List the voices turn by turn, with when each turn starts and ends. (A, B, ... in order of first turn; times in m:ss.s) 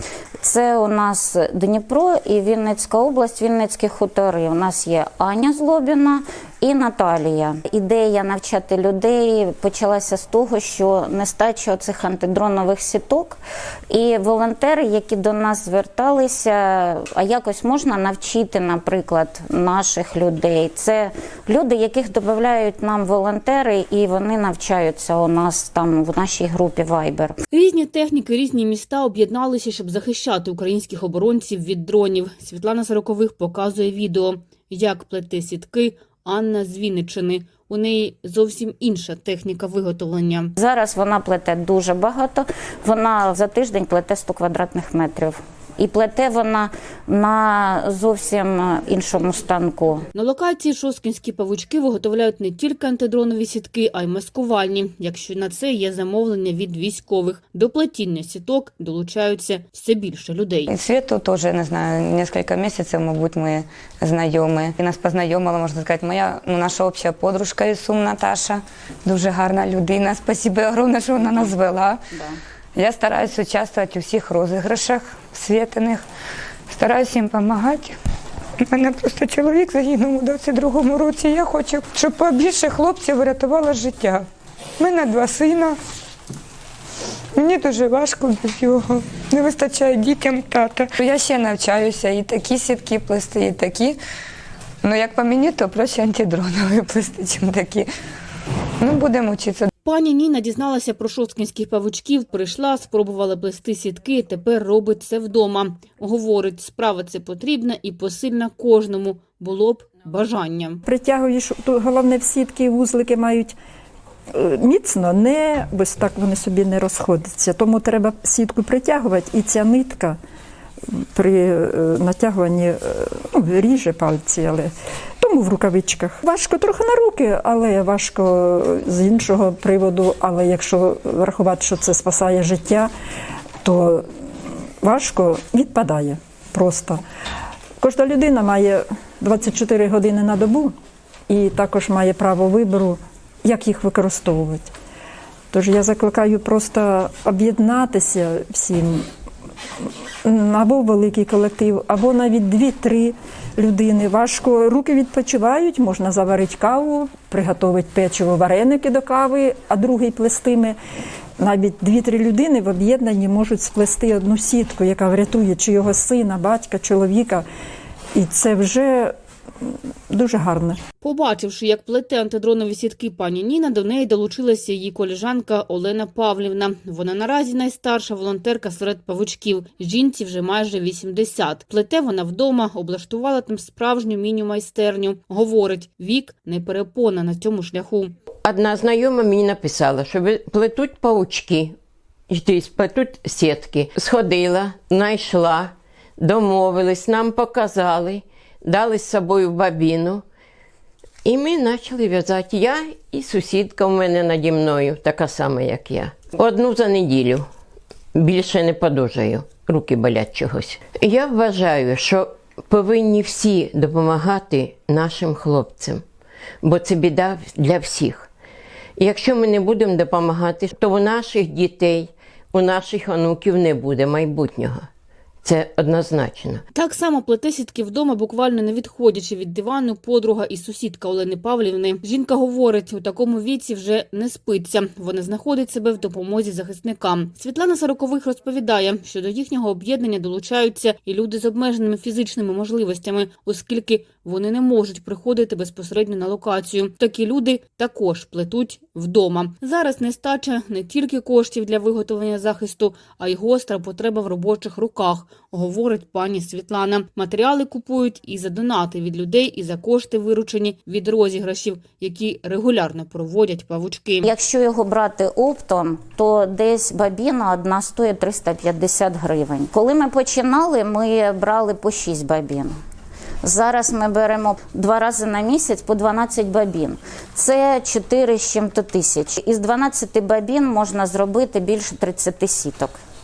0:00.4-0:13.4 A
0:13.9-0:27.3 A
0:27.5-0:40.5 B
0:40.6-0:50.0 A
0:50.1-1:00.7 B
1:00.7-1:12.1 C
1:12.8-1:16.0 C
1:16.7-1:18.0 C
1:18.6-1:24.2 C
1:24.8-1:25.8 C
1:27.4-1:34.0 C
1:34.8-1:37.9 C
1:38.8-1:39.7 C
1:39.8-1:50.8 B
1:50.8-1:53.6 D
1:54.3-2:00.2 D
2:00.9-2:12.9 D
2:13.6-2:14.1 D
2:14.8-2:17.0 D
2:17.8-2:20.7 D
2:21.3-2:24.7 D
2:25.5-2:29.0 D
2:30.2-2:40.8 D
2:41.4-2:47.4 D
2:48.1-2:49.1 D
2:50.1-2:50.8 D
2:51.0-3:08.1 B
3:08.4-3:11.7 E
3:12.3-3:20.2 E
3:21.2-3:27.5 E
3:28.1-3:36.0 E
3:36.6-3:38.3 E
3:39.0-3:44.9 E
3:45.4-3:46.6 E
3:46.7-4:24.3 B
4:24.2-4:32.7 A
4:33.4-4:43.0 A